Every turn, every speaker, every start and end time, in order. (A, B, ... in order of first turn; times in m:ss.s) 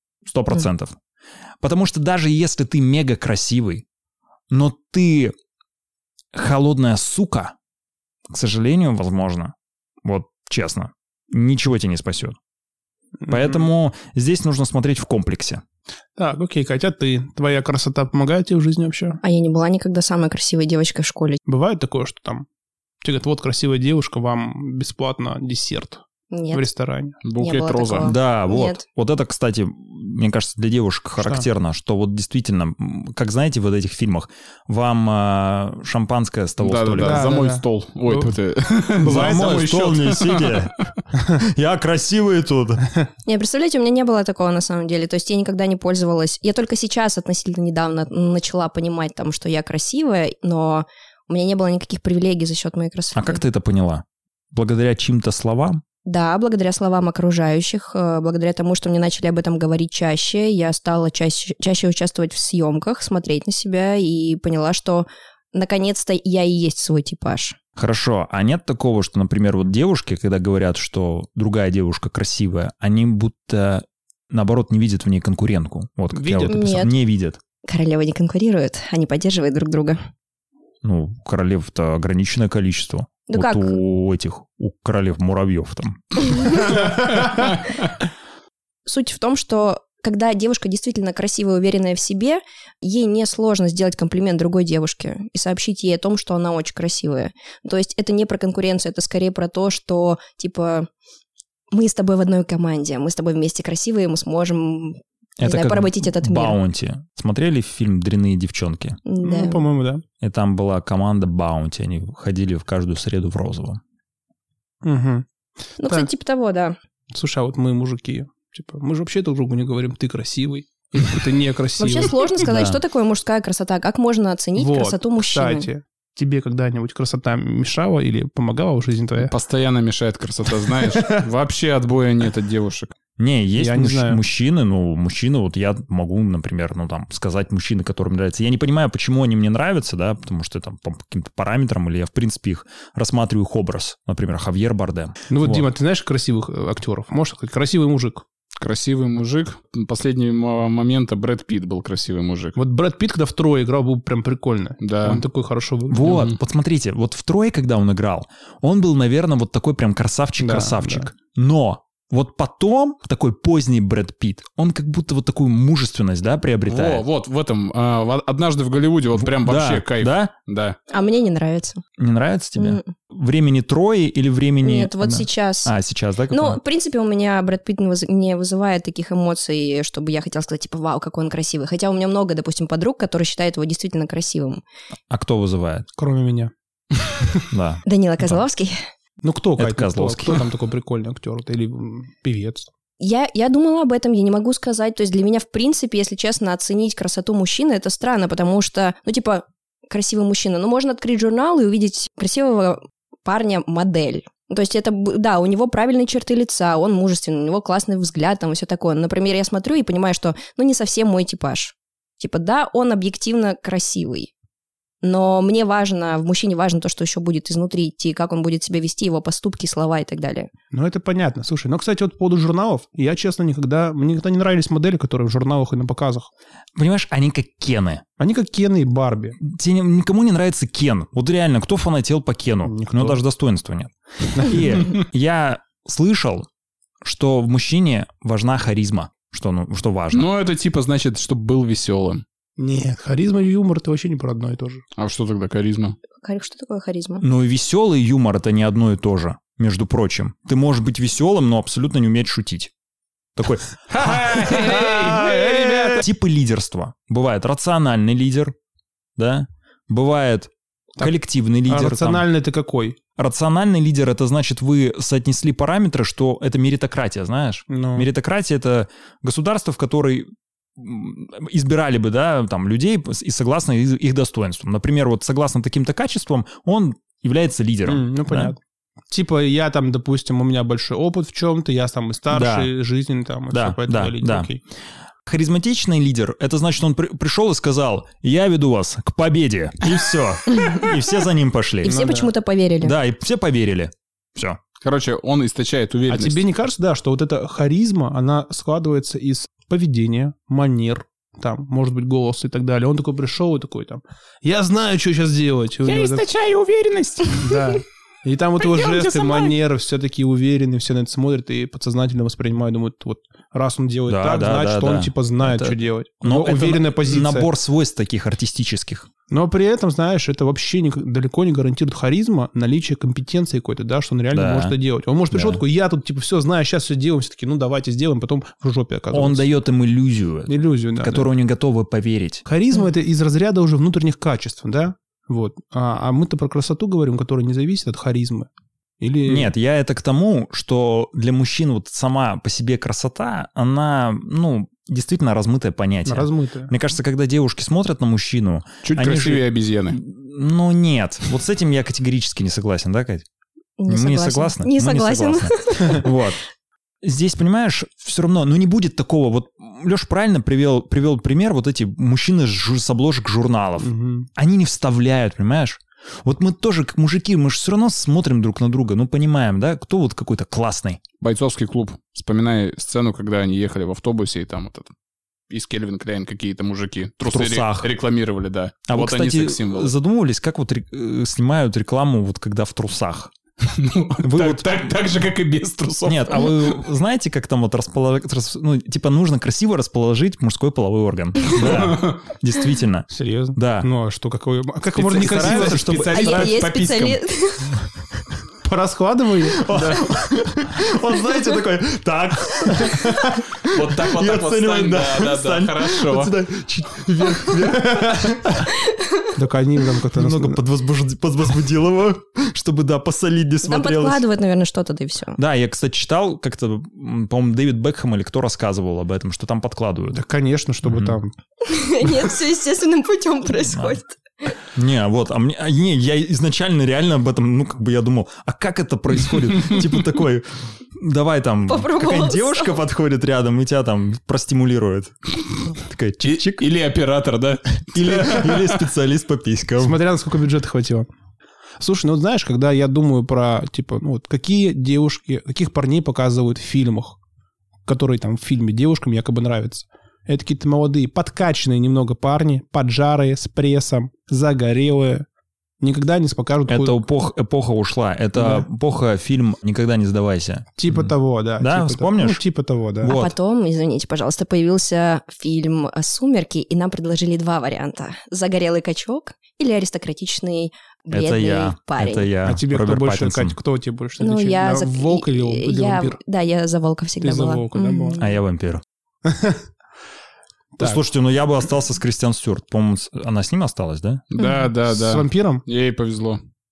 0:00.2-0:01.0 A
0:01.6-0:03.8 A
0:04.5-0:05.3 A
0:06.3-0:07.5 A
0:08.3-0:12.4 A
0:13.2-0:13.6 B
0:13.3-0:15.6 A
0:16.2-0:19.2 B
0:19.2-0:21.4 C
0:21.4-0:22.4 B
0:23.0-0:27.2 B
0:26.3-0:26.6 C
0:27.2-0:28.1 D
0:27.4-0:28.8 C
0:28.0-0:37.2 A
0:31.2-0:31.4 B
0:36.6-0:40.6 D
0:37.0-0:38.3 B
0:39.0-0:39.8 B
0:39.0-0:42.9 A
0:43.2-0:53.4 C
0:53.1-0:55.8 A
0:56.0-1:07.6 C
1:07.8-1:17.4 A
1:16.1-1:16.7 B
1:16.4-1:16.9 C
1:17.6-1:20.0 C
1:20.8-1:26.6 A
1:23.3-1:23.8 C
1:26.3-1:26.8 C
1:28.8-1:40.9 C
1:41.7-1:46.6 C
1:45.4-1:49.0 A
1:49.0-1:49.6 C
1:49.2-1:50.0 B
1:50.2-1:53.8 A
1:54.8-1:55.3 B
1:55.8-1:56.1 B
1:55.8-1:56.8 C
1:57.1-2:02.3 B
2:01.8-2:05.7 C
2:02.4-2:02.8 A
2:04.6-2:09.3 B
2:09.2-2:12.9 D
2:10.7-2:11.2 B
2:13.2-2:25.6 A
2:13.6-2:14.2 B
2:25.3-2:28.2 B
2:28.6-2:32.6 D
2:32.6-2:36.2 B
2:34.8-2:35.2 D
2:35.9-2:47.0 A
2:36.0-2:36.4 D
2:40.4-2:41.1 B
2:46.6-2:50.8 D
2:49.2-2:50.3 A
2:50.9-2:51.8 C
2:52.0-2:56.6 A
2:52.6-2:52.9 C
2:54.6-2:55.7 C
2:56.3-3:04.6 C
3:05.1-3:05.9 A
3:06.0-3:06.5 B
3:07.5-3:08.4 A
3:07.8-3:08.8 C
3:09.2-3:12.7 B
3:09.6-3:10.4 A
3:13.0-3:34.3 C
3:35.0-3:40.5 C
3:40.7-3:46.3 B
3:46.8-3:48.0 A
3:48.2-3:49.4 B
3:49.4-3:56.5 A
3:52.6-3:53.2 B
3:54.4-3:54.6 B
3:57.0-4:00.2 A
4:00.1-4:02.2 D
4:02.6-4:04.8 B
4:05.0-4:06.0 D
4:06.2-4:07.2 C
4:07.2-4:12.7 A
4:13.4-4:18.5 A
4:13.9-4:16.0 D
4:15.0-4:16.0 B
4:19.2-4:22.2 A
4:21.7-4:23.0 B
4:23.2-4:38.5 A
4:27.7-4:28.1 B
4:37.8-4:38.6 B
4:39.1-4:44.6 B
4:42.3-4:42.7 A
4:43.5-4:44.5 A
4:45.2-4:52.0 A
4:50.6-4:50.9 C
4:51.8-4:52.9 C
4:51.8-4:52.3 B
4:52.8-4:54.6 A
4:54.8-4:56.4 D
4:56.1-5:06.3 B
5:05.8-5:07.6 D
5:07.4-5:17.5 B
5:08.6-5:09.5 D
5:14.1-5:19.1 A
5:19.3-5:29.5 B
5:24.3-5:24.7 A
5:25.3-5:25.6 A
5:29.1-5:32.4 A
5:30.5-5:31.3 B
5:32.4-5:38.5 B
5:39.0-5:39.5 B
5:39.2-5:53.2 A
5:46.0-5:46.7 B
5:48.8-5:50.0 D
5:53.8-5:56.2 C
5:53.9-5:56.4 A
5:57.0-6:11.0 A
6:03.8-6:04.3 B
6:11.2-6:14.9 D
6:15.5-6:19.9 D
6:17.2-6:17.9 A
6:18.9-6:23.3 A
6:23.6-6:26.8 D
6:24.2-6:24.9 A
6:26.0-6:33.9 A
6:31.5-6:32.2 D
6:33.1-6:36.4 B
6:34.9-6:36.5 A
6:35.0-6:37.2 D
6:36.1-6:37.7 C
6:38.6-6:39.7 B
6:39.5-6:48.7 A
6:39.7-6:40.0 D
6:43.6-6:46.3 D
6:47.7-6:48.3 B
6:48.9-6:49.3 C
6:49.3-6:50.6 B
6:50.1-6:54.2 A
6:53.6-6:55.4 C
6:55.4-7:00.2 A
7:00.1-7:01.3 B
7:00.8-7:01.2 A
7:01.6-7:04.5 C
7:03.6-7:04.0 A
7:04.7-7:15.1 A
7:11.7-7:12.8 C
7:15.7-7:16.7 A
7:16.2-7:18.8 D
7:17.9-7:20.0 A
7:19.8-7:21.1 B
7:21.8-7:27.2 B
7:27.8-7:35.2 B
7:35.8-7:37.0 B
7:36.7-7:42.4 A
7:38.4-7:38.6 B
7:40.8-7:43.2 B
7:43.0-7:43.3 A
7:43.0-7:52.3 C
7:51.1-7:53.6 A
7:52.4-7:56.2 B
7:54.2-7:58.2 C
7:57.2-7:58.2 B
7:58.2-7:58.8 A
7:59.2-7:59.6 B
8:00.8-8:01.0 B
8:00.8-8:04.2 A
8:04.3-8:06.4 D
8:04.4-8:04.7 C
8:04.8-8:05.6 B